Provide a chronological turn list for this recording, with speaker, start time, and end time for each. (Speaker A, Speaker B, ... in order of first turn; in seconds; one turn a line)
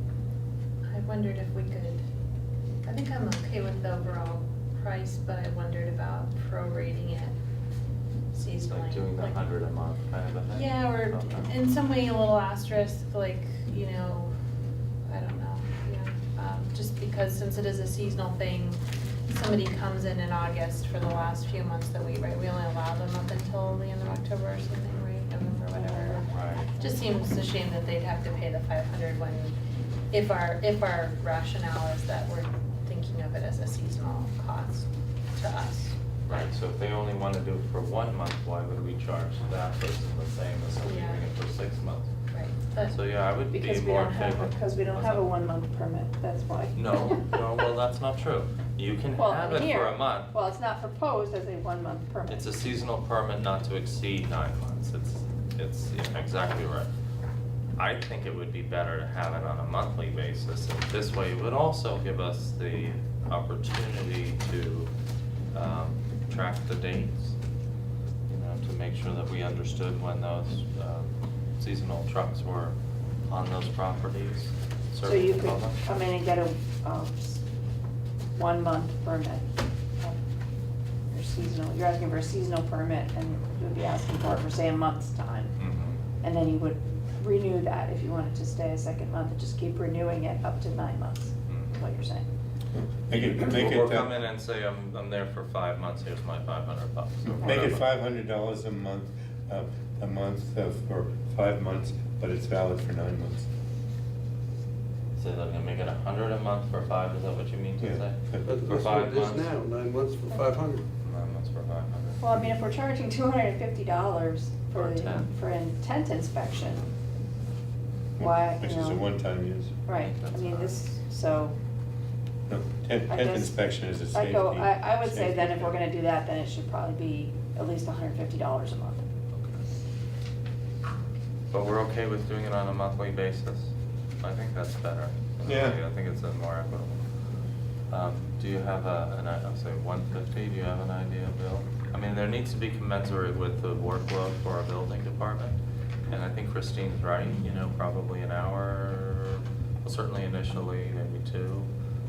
Speaker A: 0.9-2.0
Speaker A: 2.9-7.3
Speaker A: 8.3-9.4
Speaker B: 8.7-11.5
Speaker A: 10.5-14.3
Speaker A: 15.1-29.5
Speaker C: 25.7-26.8
Speaker B: 26.2-26.7
Speaker A: 30.1-36.0
Speaker B: 36.2-42.1
Speaker A: 40.8-41.2
Speaker A: 42.3-43.0
Speaker B: 42.9-45.2
Speaker C: 43.5-47.4
Speaker B: 46.7-50.3
Speaker C: 49.1-52.5
Speaker B: 52.3-56.9
Speaker B: 57.8-64.9
Speaker B: 65.5-67.3
Speaker B: 68.3-72.7
Speaker B: 73.3-75.8
Speaker C: 75.0-77.4
Speaker C: 78.3-80.2
Speaker C: 81.1-85.5
Speaker B: 85.6-86.0
Speaker C: 86.2-92.2
Speaker B: 91.5-91.8
Speaker D: 92.7-94.1
Speaker B: 93.1-97.9
Speaker D: 97.2-103.5
Speaker B: 105.2-109.5
Speaker D: 107.8-108.4
Speaker E: 108.4-110.8
Speaker B: 111.0-112.2
Speaker C: 112.2-116.8
Speaker B: 114.7-115.3
Speaker D: 118.2-119.8
Speaker C: 118.2-119.0
Speaker C: 119.8-121.5
Speaker B: 119.9-120.7
Speaker D: 122.5-125.8
Speaker C: 123.1-129.0
Speaker B: 129.3-129.6
Speaker B: 131.5-137.0
Speaker D: 135.4-135.8
Speaker B: 137.9-145.6
Speaker B: 146.1-151.7